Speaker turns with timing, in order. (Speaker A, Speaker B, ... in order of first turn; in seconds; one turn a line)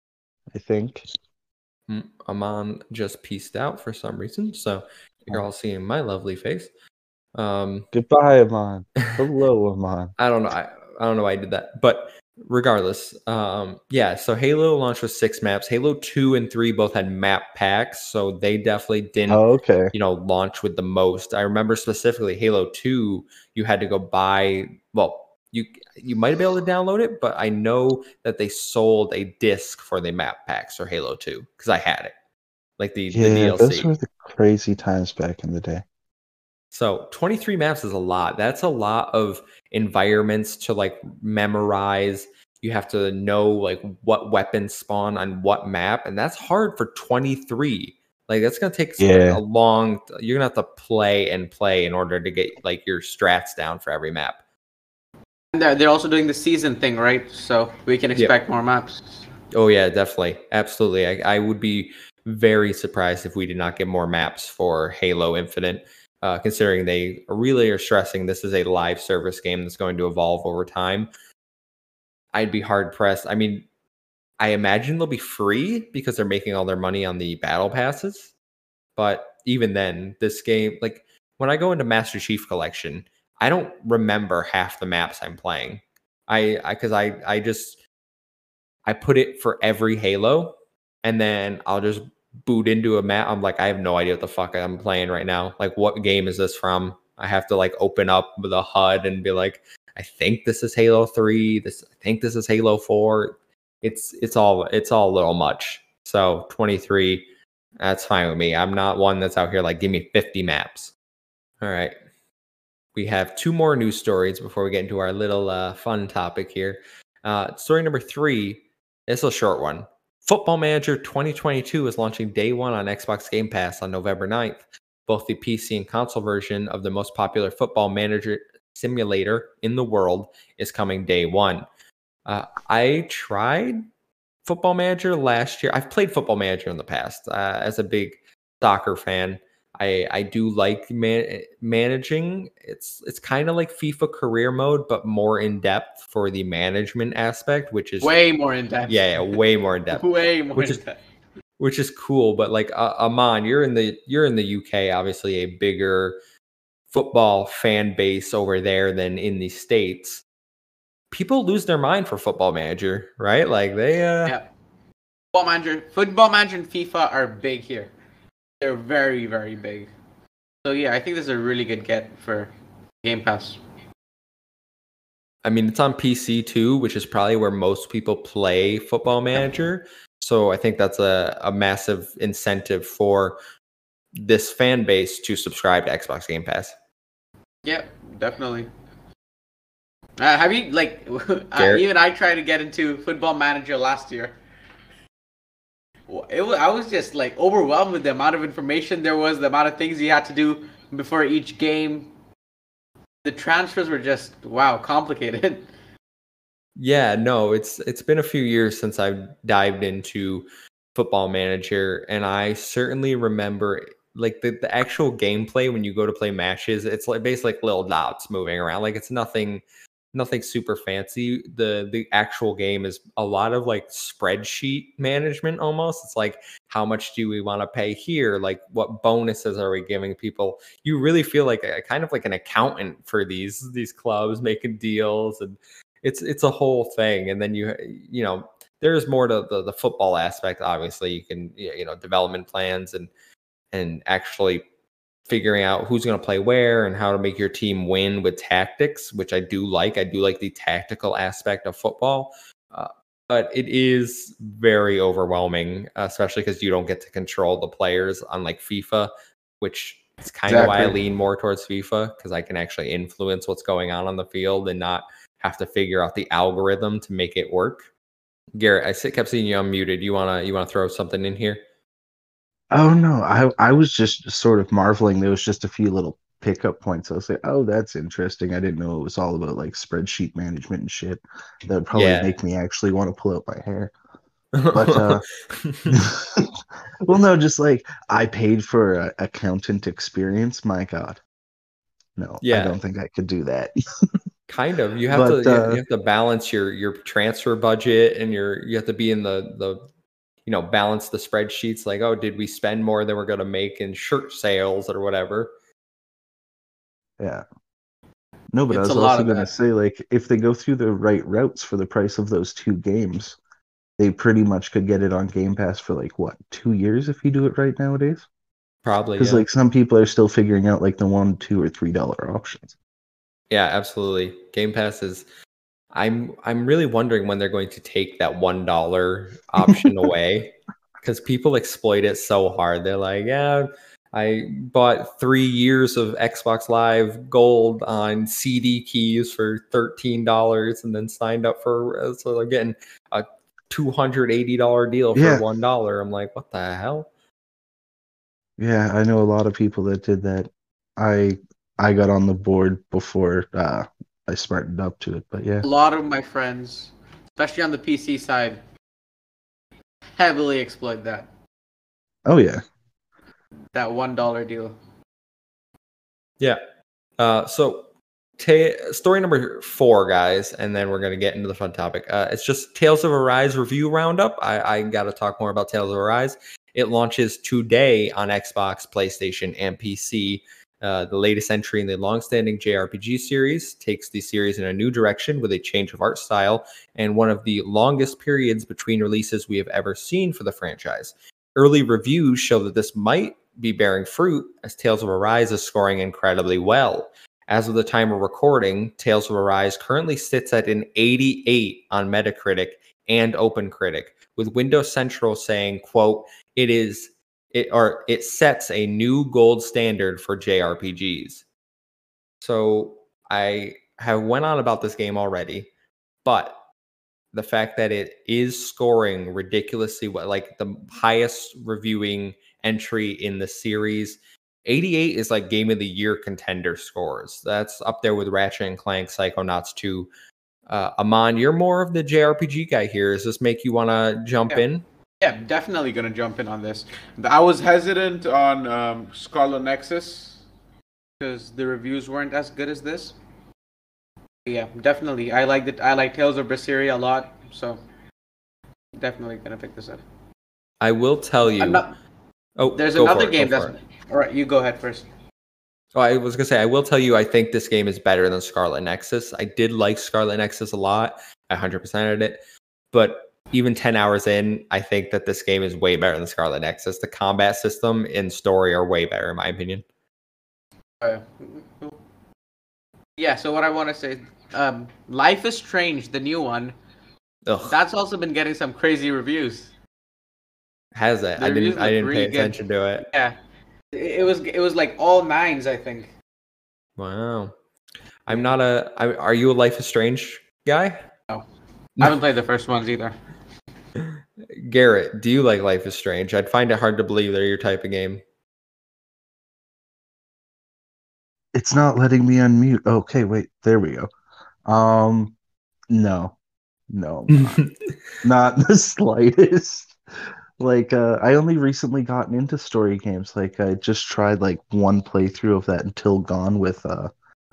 Speaker A: 0.5-1.1
Speaker B: 1.9-6.7
Speaker B: 7.3-7.9
Speaker A: 7.9-10.1
Speaker B: 10.2-32.1
Speaker A: 19.3-19.9
Speaker B: 32.8-33.9
Speaker A: 33.1-35.8
Speaker B: 36.7-54.4
Speaker A: 49.0-49.4
Speaker C: 55.5-59.2
Speaker B: 59.5-71.1
Speaker B: 72.3-73.7
Speaker B: 74.4-78.3
Speaker B: 79.0-87.8
Speaker B: 88.9-107.3
Speaker B: 107.8-110.9
Speaker B: 111.6-111.9
Speaker B: 113.0-131.7
Speaker B: 132.3-133.8
Speaker B: 134.4-148.2
Speaker C: 148.0-150.9
Speaker B: 148.9-150.0
Speaker B: 150.6-150.8
Speaker B: 151.6-156.2
Speaker B: 156.9-160.2
Speaker B: 161.1-164.4
Speaker C: 165.3-167.9
Speaker C: 168.6-169.9
Speaker C: 170.6-173.6
Speaker B: 175.4-183.4
Speaker B: 184.2-186.7
Speaker C: 187.6-188.7
Speaker C: 190.2-194.3
Speaker B: 191.6-191.8
Speaker C: 196.1-202.1
Speaker C: 203.2-205.7
Speaker B: 206.8-243.1
Speaker B: 243.7-244.7
Speaker B: 245.3-267.9
Speaker C: 260.5-261.0
Speaker B: 268.6-271.6
Speaker A: 272.7-283.9
Speaker B: 281.9-282.3
Speaker B: 284.6-286.0
Speaker A: 284.7-285.2
Speaker A: 285.9-291.2
Speaker A: 292.2-293.7
Speaker B: 292.4-292.8
Speaker B: 294.5-299.8
Speaker A: 295.1-295.8
Speaker B: 300.5-305.5
Speaker A: 307.2-307.4
Speaker A: 308.5-313.4
Speaker C: 308.7-309.5
Speaker A: 314.0-318.3
Speaker B: 318.9-319.4
Speaker A: 319.2-322.7
Speaker B: 323.5-325.3
Speaker B: 325.9-347.1
Speaker A: 345.1-345.4
Speaker A: 348.6-355.7
Speaker C: 355.6-358.6
Speaker C: 360.2-361.3
Speaker A: 362.3-362.6
Speaker C: 363.7-364.8
Speaker B: 367.2-367.9
Speaker B: 368.4-411.4
Speaker B: 412.4-415.7
Speaker B: 416.2-416.6
Speaker B: 417.3-430.1
Speaker B: 430.7-434.8
Speaker C: 435.2-440.4
Speaker C: 441.2-443.2
Speaker C: 444.5-447.8
Speaker C: 449.0-450.0
Speaker B: 450.8-451.9
Speaker C: 451.4-451.9
Speaker B: 452.6-453.7
Speaker C: 452.7-455.1
Speaker B: 455.9-462.4
Speaker B: 462.9-469.9
Speaker C: 471.0-472.0
Speaker C: 473.2-476.8
Speaker B: 477.5-477.8
Speaker C: 477.6-479.7
Speaker B: 480.9-483.1
Speaker C: 481.4-483.4
Speaker C: 483.9-486.1
Speaker B: 487.0-487.5
Speaker B: 488.3-491.0
Speaker C: 492.0-493.1
Speaker B: 494.0-498.2
Speaker A: 501.5-504.1
Speaker A: 504.7-505.4
Speaker A: 505.9-506.4
Speaker A: 506.9-507.6
Speaker B: 507.3-507.9
Speaker A: 508.2-509.9
Speaker A: 510.6-517.1